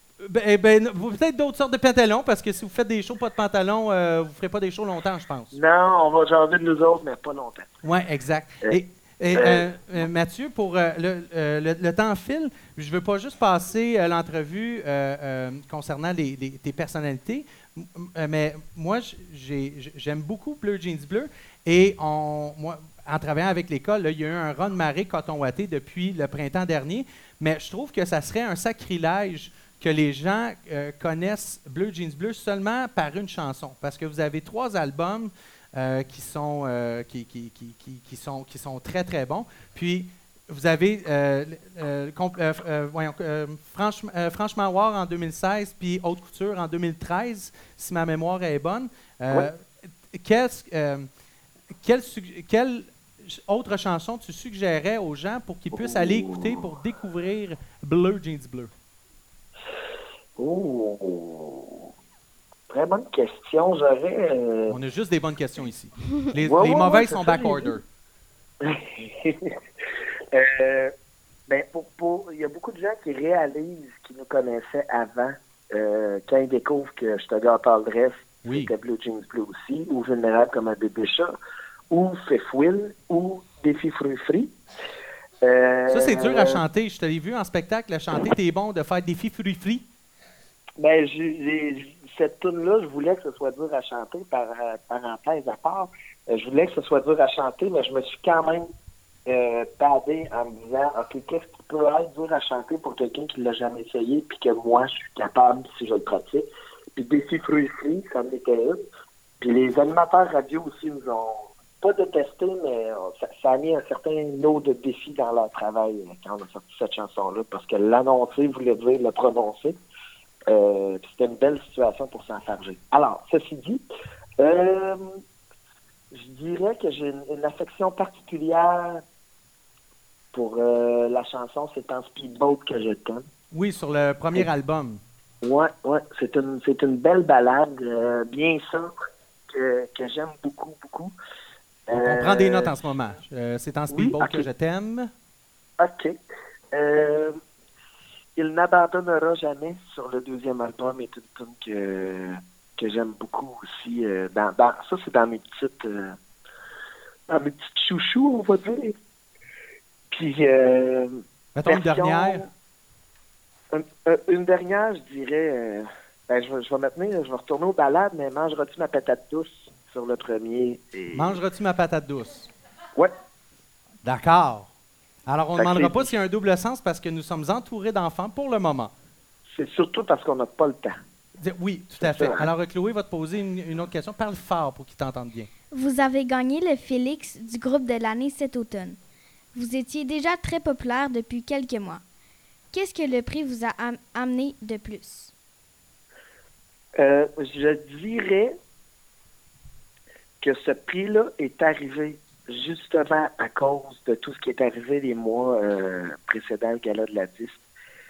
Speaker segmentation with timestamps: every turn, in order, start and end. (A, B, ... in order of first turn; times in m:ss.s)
0:00.2-0:05.5 A
0:05.5-0:07.7 B
0:07.8-0:51.1 A
0:09.3-0:09.7 B
0:51.8-0:58.7 A
0:55.7-0:56.7 B
1:00.4-1:01.9 B
1:02.7-1:04.8 B
1:04.7-1:07.8 A
1:06.4-1:07.8 B
1:08.6-1:09.5 B
1:10.3-1:10.9 B
1:11.5-1:21.4 B
1:18.4-1:18.7 A
1:21.9-1:24.5 B
1:25.4-1:26.6 B
1:25.9-1:29.8 A
1:30.8-1:38.6 B
1:39.3-1:48.8 B
1:49.4-1:59.8 B
2:00.5-2:03.8 B
2:04.4-2:05.2 B
2:06.1-2:09.0 B
2:10.3-2:13.3 B
2:13.5-2:15.0 A
2:15.4-2:18.9 B
2:19.5-2:21.1 B
2:21.9-2:22.7 B
2:22.0-2:25.1 A
2:23.9-2:24.5 B
2:25.8-2:26.2 B
2:26.7-2:27.4 B
2:28.4-2:36.2 B
2:37.3-2:39.0 B
2:40.1-2:42.5 B
2:41.5-2:42.4 A
2:43.7-2:51.4 B
2:51.1-2:52.5 A
2:54.0-2:54.7 A
2:55.3-2:58.9 A
2:55.6-2:56.1 B
2:59.5-3:01.0 B
3:01.4-3:05.5 A
3:02.0-3:02.5 B
3:05.7-3:09.0 C
3:09.5-3:12.0 C
3:12.7-3:15.3 C
3:17.0-3:18.6 B
3:20.4-3:27.6 B